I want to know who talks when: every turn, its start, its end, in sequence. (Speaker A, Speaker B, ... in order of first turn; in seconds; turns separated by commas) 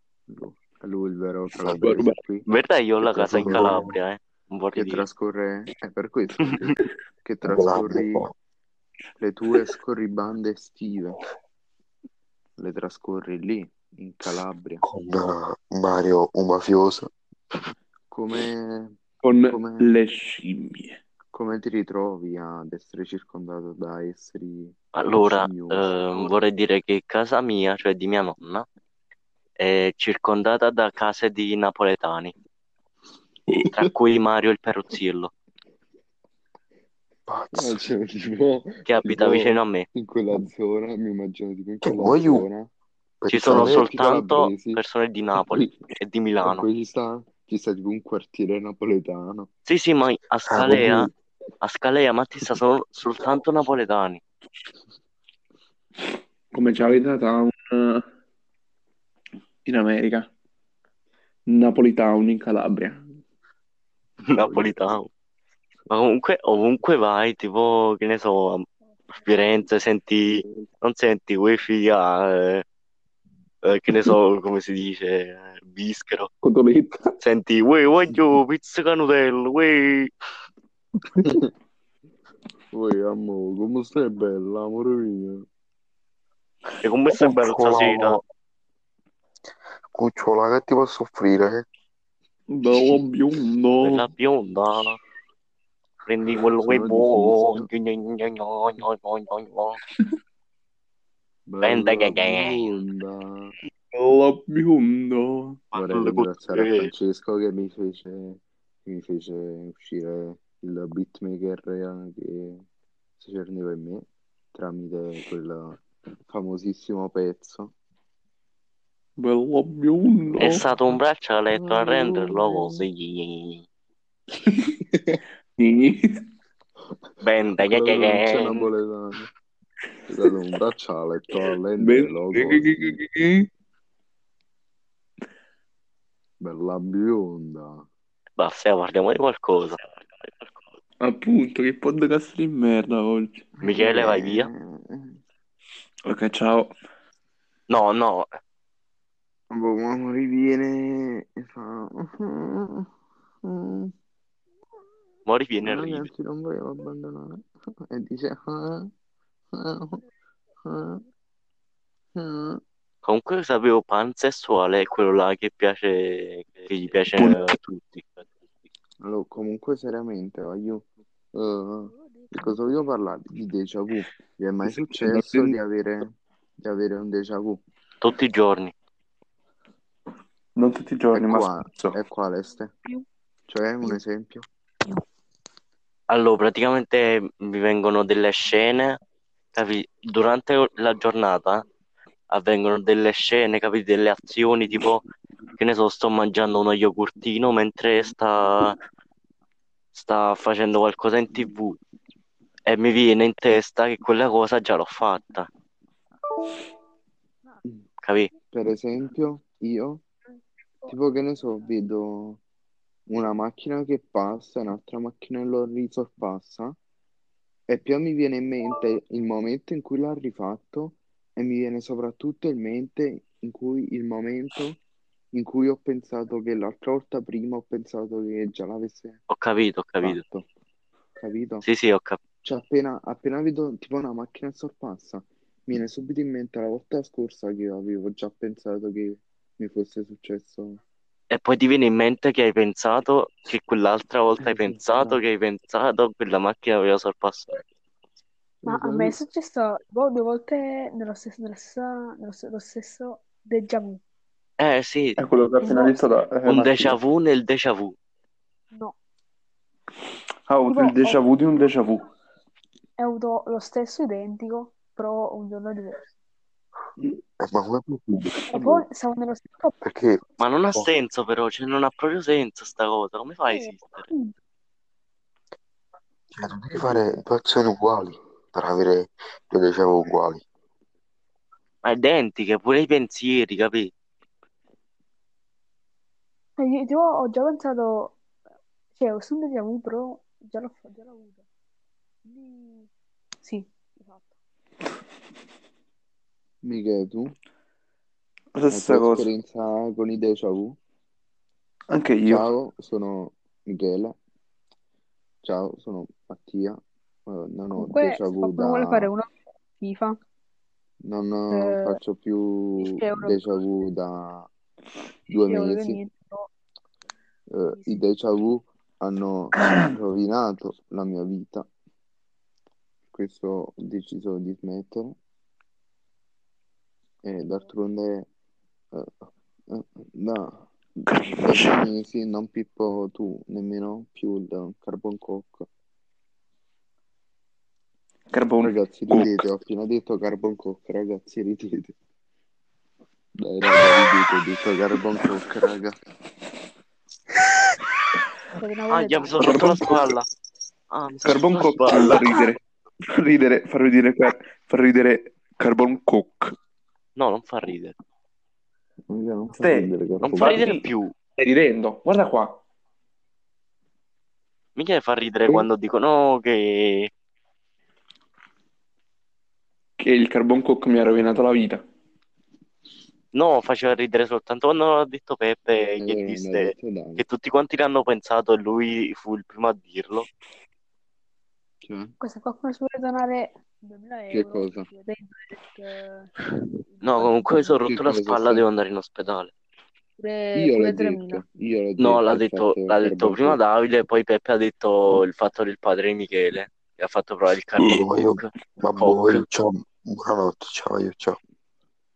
Speaker A: 0.3-2.5, Speaker B: 1.5-2.0, Speaker C: 1.8-2.2, Speaker D: 2.5-5.1, Speaker B: 3.0-4.0, Speaker A: 3.3-3.7, Speaker A: 4.7-8.2, Speaker B: 7.5-8.3, Speaker A: 9.2-11.2, Speaker A: 12.6-14.8, Speaker B: 14.8-17.1, Speaker A: 18.1-18.9, Speaker C: 19.2-21.0, Speaker A: 19.5-20.0, Speaker A: 21.3-26.4, Speaker D: 24.9-28.7, Speaker D: 29.6-32.3, Speaker D: 33.5-35.3, Speaker B: 37.3-37.9, Speaker A: 37.5-42.7, Speaker D: 38.9-39.9, Speaker B: 41.8-42.5, Speaker B: 43.2-43.9, Speaker D: 43.3-46.6, Speaker A: 43.5-44.8, Speaker A: 45.4-45.7, Speaker A: 46.4-49.5, Speaker D: 49.7-51.1, Speaker B: 50.5-51.1, Speaker D: 51.6-54.2, Speaker C: 56.5-58.0, Speaker C: 59.6-60.3, Speaker C: 61.5-63.0, Speaker D: 64.3-65.1, Speaker A: 64.4-64.9, Speaker D: 65.9-68.7, Speaker D: 69.2-72.6, Speaker D: 73.7-76.3, Speaker C: 76.4-77.2, Speaker D: 77.2-80.1, Speaker A: 82.7-85.5, Speaker D: 86.8-88.2, Speaker B: 87.1-88.2, Speaker B: 90.0-91.7, Speaker C: 92.5-94.1, Speaker D: 93.8-95.0, Speaker D: 96.0-99.8, Speaker A: 96.6-97.7, Speaker A: 101.5-103.5, Speaker D: 101.6-102.7, Speaker C: 103.9-105.6, Speaker D: 105.7-106.9, Speaker A: 105.7-112.6, Speaker A: 113.2-117.7, Speaker C: 119.2-120.7, Speaker D: 120.4-123.6, Speaker A: 121.5-122.8, Speaker C: 125.6-126.2, Speaker D: 127.2-128.7, Speaker A: 127.6-129.3, Speaker A: 130.1-133.0, Speaker C: 131.8-133.5, Speaker A: 136.4-137.9, Speaker D: 138.4-140.3, Speaker C: 141.0-143.4, Speaker A: 143.6-145.2, Speaker D: 143.6-144.5, Speaker C: 146.1-146.7, Speaker D: 147.7-148.3, Speaker A: 149.5-152.9, Speaker A: 153.5-153.9, Speaker D: 155.2-156.1, Speaker A: 155.6-158.9, Speaker A: 159.6-160.0, Speaker A: 160.7-161.0, Speaker A: 162.2-162.6, Speaker D: 163.0-168.2, Speaker A: 169.0-176.1, Speaker C: 174.7-175.6, Speaker A: 176.6-177.6, Speaker D: 178.0-178.7, Speaker C: 180.6-182.0, Speaker A: 181.1-182.7, Speaker A: 183.5-184.5, Speaker D: 186.1-189.0, Speaker D: 189.6-191.7, Speaker D: 192.3-195.0, Speaker D: 195.6-198.8, Speaker D: 199.9-201.8, Speaker D: 202.7-205.5, Speaker D: 208.0-208.3, Speaker A: 208.5-210.0, Speaker A: 210.9-212.4, Speaker A: 213.1-216.8, Speaker A: 217.7-224.8, Speaker A: 225.3-229.2, Speaker D: 229.3-230.2, Speaker A: 230.0-230.5, Speaker A: 231.2-231.7, Speaker D: 231.6-232.2, Speaker A: 232.4-240.8, Speaker D: 241.3-247.6, Speaker A: 244.4-245.2, Speaker A: 248.7-249.2, Speaker E: 248.7-254.0, Speaker D: 254.6-255.2, Speaker C: 255.2-257.0, Speaker E: 255.6-256.0, Speaker D: 256.5-257.9, Speaker C: 260.5-262.1, Speaker E: 260.7-261.2, Speaker E: 263.0-266.0, Speaker B: 267.4-268.4, Speaker E: 268.5-269.7, Speaker B: 269.8-270.2, Speaker D: 270.4-274.1, Speaker E: 273.5-274.3, Speaker B: 276.3-280.4, Speaker D: 281.8-283.9, Speaker E: 286.6-288.2, Speaker E: 289.0-291.4, Speaker E: 292.2-292.9, Speaker E: 293.4-294.3, Speaker A: 296.6-297.4, Speaker C: 298.6-299.3, Speaker A: 298.7-300.8, Speaker C: 301.9-302.5, Speaker A: 302.2-304.1, Speaker A: 305.4-309.1, Speaker E: 307.8-309.3, Speaker E: 309.8-310.2, Speaker A: 311.0-314.5, Speaker E: 311.5-312.0, Speaker E: 312.8-313.5, Speaker A: 315.3-316.0, Speaker E: 315.4-316.5, Speaker A: 317.5-321.7, Speaker E: 317.7-318.0, Speaker A: 323.1-325.2, Speaker A: 327.2-328.3, Speaker A: 329.7-330.7, Speaker C: 331.1-331.9, Speaker A: 331.3-335.7, Speaker C: 338.3-339.4, Speaker A: 338.6-341.9, Speaker A: 343.4-346.0, Speaker E: 348.6-349.6, Speaker D: 348.9-350.3, Speaker C: 349.4-350.0, Speaker D: 350.9-352.3, Speaker C: 351.2-356.6, Speaker D: 357.2-358.0, Speaker A: 359.1-360.7, Speaker C: 359.6-360.9, Speaker D: 360.2-361.1, Speaker C: 361.4-362.6, Speaker D: 364.8-367.1, Speaker C: 370.0-371.9, Speaker D: 373.3-380.3, Speaker A: 375.8-377.2, Speaker A: 381.8-382.1, Speaker E: 382.2-386.3, Speaker A: 384.3-384.9, Speaker E: 386.9-387.6, Speaker D: 387.0-389.5, Speaker A: 387.5-388.7, Speaker E: 390.2-391.4, Speaker A: 390.5-393.6, Speaker D: 392.0-399.4, Speaker B: 397.8-401.4